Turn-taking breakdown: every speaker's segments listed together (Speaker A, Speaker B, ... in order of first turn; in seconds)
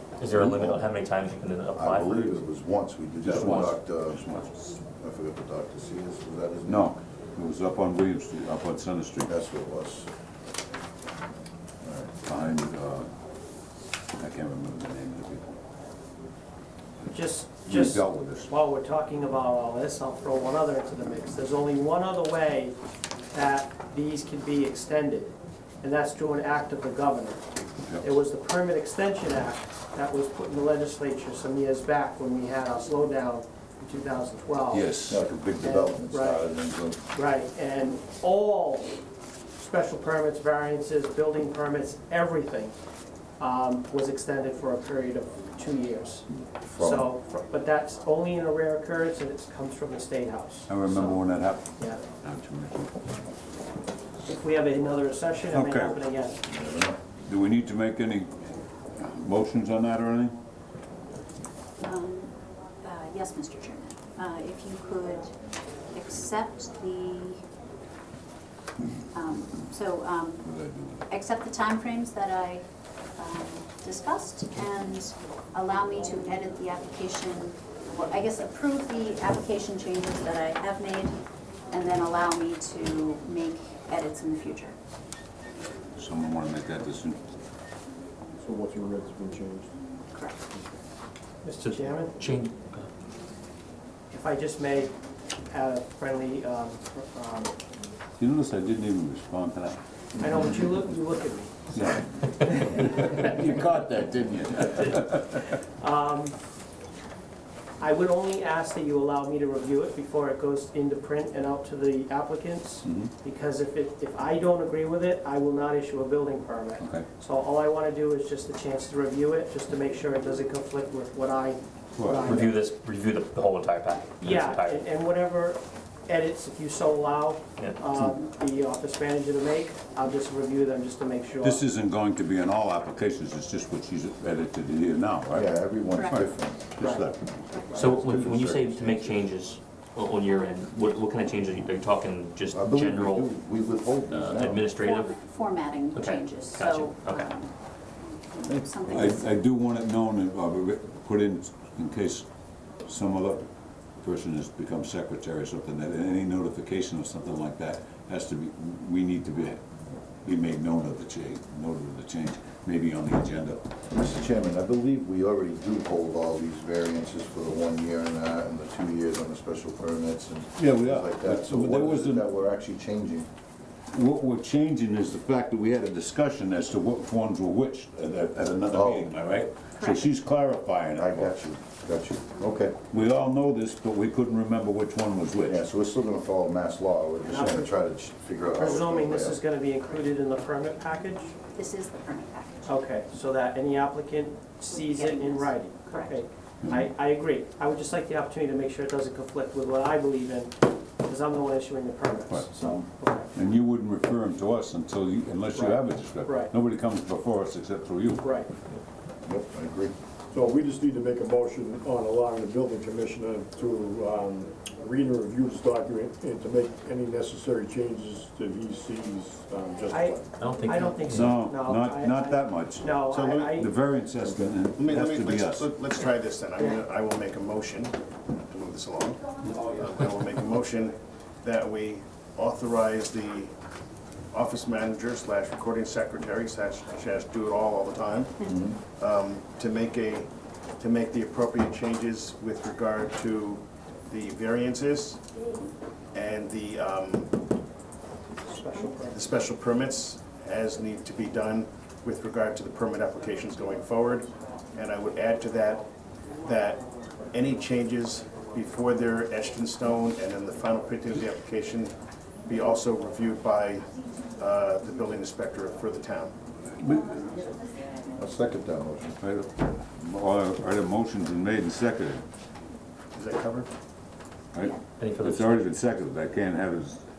Speaker A: 0.2-2.4, 3.3-3.7, 91.6-92.9, 122.2-124.8, 137.8-143.3, 144.1-145.1, 145.9-147.3, 220.4-221.4, 275.0-275.7
Speaker B: 0.3-0.9, 1.8-6.9, 9.2-10.1, 11.8-12.2, 35.0-37.0, 46.6-47.1, 56.5-57.0, 135.3-136.8, 142.5-144.6, 163.9-173.3, 178.7-179.1, 181.0-182.8, 185.4-189.4, 209.2-209.9, 238.5-238.8, 268.2-269.2
Speaker C: 3.2-4.5, 6.7-9.3, 12.3-13.1, 14.2-15.6, 17.7-18.5, 34.7-35.2, 50.7-51.7, 52.2-52.9, 55.5-56.0, 57.3-58.4, 59.0-60.3, 70.5-71.0, 86.0-87.2, 98.2-100.5, 101.8-105.5, 112.8-113.1, 116.8-117.1, 122.0-122.4, 131.4-135.4, 136.1-139.2, 148.8-152.3, 152.9-153.4, 154.0-159.6, 160.2-163.6, 170.6-172.3, 173.9-181.3, 182.9-185.6, 202.3-208.2, 221.1-225.7, 266.8-267.4, 269.2-272.2, 274.5-277.0
Speaker D: 17.1-22.8, 23.3-27.4, 28.0-34.9, 35.5-36.5, 37.1-38.9, 39.6-42.7, 43.4-46.2, 46.8-51.2, 54.2-56.4, 91.4-92.2, 94.1-94.9, 95.5-97.5, 100.2-102.0, 105.8-106.4, 107.8-122.5, 124.2-131.6, 136.8-137.1, 187.2-187.7, 188.5-191.4, 192.7-203.3, 205.5-206.5, 208.2-208.5, 219.9-223.7, 248.5-249.3
Speaker E: 61.8-65.3, 65.9-67.4, 69.1-70.5, 71.1-72.7, 73.2-81.2, 81.7-84.8, 90.1-90.5, 135.9-136.3, 137.5-137.8, 140.3-141.4, 144.8-149.4, 179.8-180.1, 191.4-192.8, 194.8-196.2
Speaker F: 88.4-89.7, 210.3-220.5
Speaker G: 224.7-233.5, 234.3-238.4, 238.9-240.3, 240.8-245.2, 246.1-247.3, 249.1-255.8, 256.4-261.9, 262.5-266.3, 273.1-273.7